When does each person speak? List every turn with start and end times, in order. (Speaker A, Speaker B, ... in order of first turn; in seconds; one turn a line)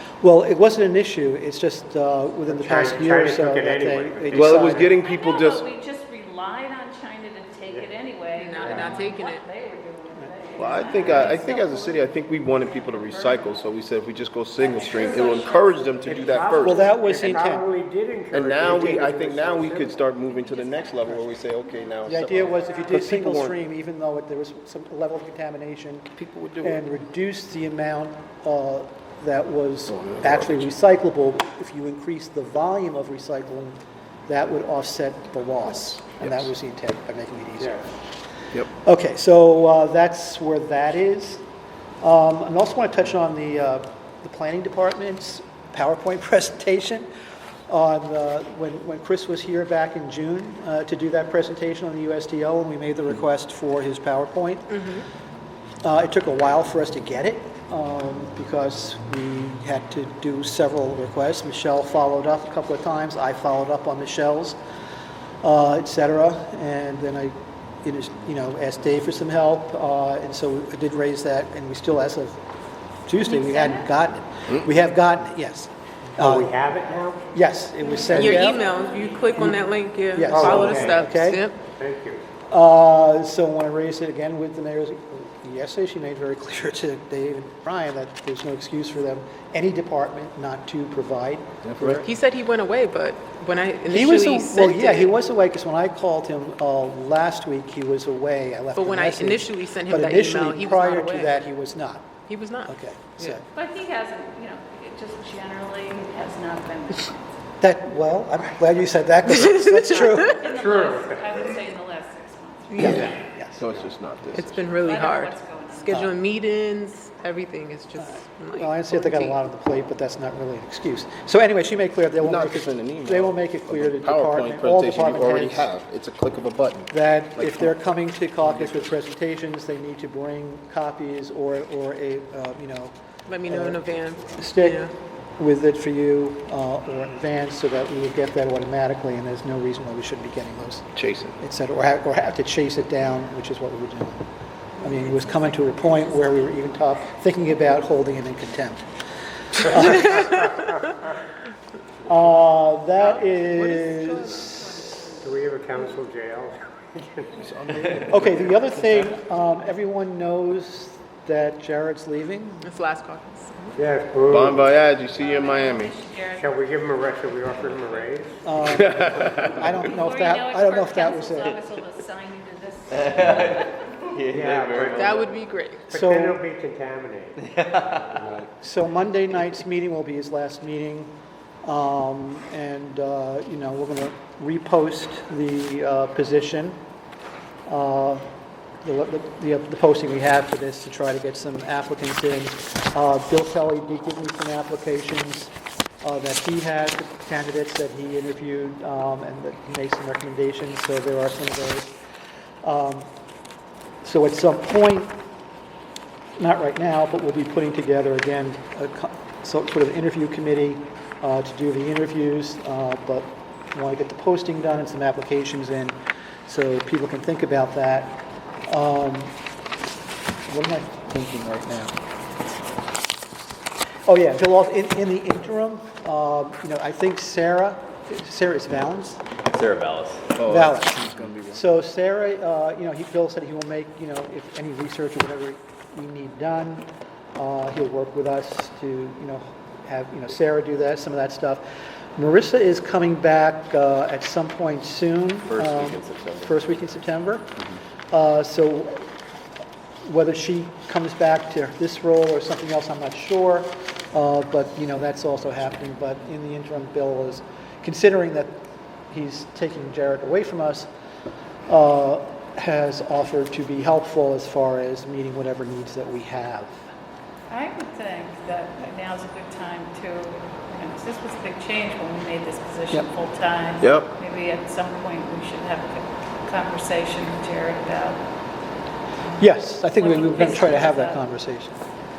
Speaker A: 0.2-4.9
Speaker B: 2.5-4.9
Speaker C: 4.3-5.6
Speaker D: 5.0-13.7
Speaker E: 8.3-9.4
Speaker B: 8.6-9.0
Speaker C: 10.6-16.8
Speaker D: 14.6-16.2
Speaker B: 16.0-20.0
Speaker A: 16.6-17.7
Speaker C: 18.3-23.6
Speaker D: 20.1-22.9
Speaker A: 22.0-26.1
Speaker C: 26.1-26.8
Speaker A: 26.6-37.8
Speaker C: 29.9-30.7
Speaker C: 36.2-36.5
Speaker A: 38.7-41.4
Speaker A: 42.0-47.1
Speaker A: 47.7-54.8
Speaker E: 54.7-55.0
Speaker A: 55.8-64.6
Speaker A: 65.4-72.4
Speaker A: 73.1-76.5
Speaker D: 73.2-73.9
Speaker B: 76.2-77.3
Speaker A: 77.3-78.6
Speaker D: 77.8-79.3
Speaker E: 78.1-81.6
Speaker A: 79.4-81.4
Speaker B: 80.3-81.0
Speaker B: 81.7-82.2
Speaker A: 82.5-92.1
Speaker C: 91.7-92.0
Speaker E: 92.0-95.1
Speaker A: 93.9-103.4
Speaker E: 98.7-101.4
Speaker E: 102.3-103.4
Speaker D: 103.5-107.2
Speaker A: 107.6-110.4
Speaker D: 110.2-113.1
Speaker B: 110.4-111.5
Speaker E: 112.7-113.2
Speaker A: 112.8-113.6
Speaker C: 113.6-114.8
Speaker E: 114.3-119.4
Speaker D: 114.8-116.0
Speaker A: 118.0-125.7
Speaker C: 122.2-127.7
Speaker A: 126.9-144.2
Speaker C: 128.5-128.9
Speaker E: 133.3-134.9
Speaker C: 140.9-141.4
Speaker A: 144.8-148.8
Speaker A: 149.5-150.4
Speaker B: 150.2-150.6
Speaker A: 152.1-154.9
Speaker E: 153.5-154.9
Speaker B: 155.2-157.4
Speaker C: 157.4-158.5
Speaker A: 158.1-162.7
Speaker E: 162.6-163.8
Speaker B: 163.8-164.7
Speaker C: 164.3-165.9
Speaker D: 165.1-166.5
Speaker B: 166.4-168.4
Speaker A: 168.4-171.6
Speaker C: 168.5-169.7
Speaker D: 169.8-173.8
Speaker F: 173.0-173.6
Speaker F: 174.1-175.3
Speaker B: 174.3-175.2
Speaker E: 174.9-175.9
Speaker B: 175.9-177.4
Speaker A: 175.9-176.4
Speaker F: 177.6-178.4
Speaker A: 178.6-181.1
Speaker A: 181.6-186.8
Speaker A: 187.7-188.3
Speaker A: 188.8-201.9
Speaker A: 202.6-203.1
Speaker A: 204.0-205.1
Speaker A: 206.4-215.9
Speaker A: 216.5-219.3
Speaker A: 220.5-221.9
Speaker A: 224.1-229.2
Speaker F: 229.5-230.2
Speaker C: 230.4-231.7
Speaker A: 230.4-241.6
Speaker A: 242.2-249.0
Speaker F: 245.6-246.2
Speaker C: 245.9-246.3
Speaker A: 250.0-260.9
Speaker A: 261.7-266.8
Speaker D: 267.5-278.2
Speaker C: 273.8-274.1
Speaker A: 279.4-281.8
Speaker D: 279.9-281.2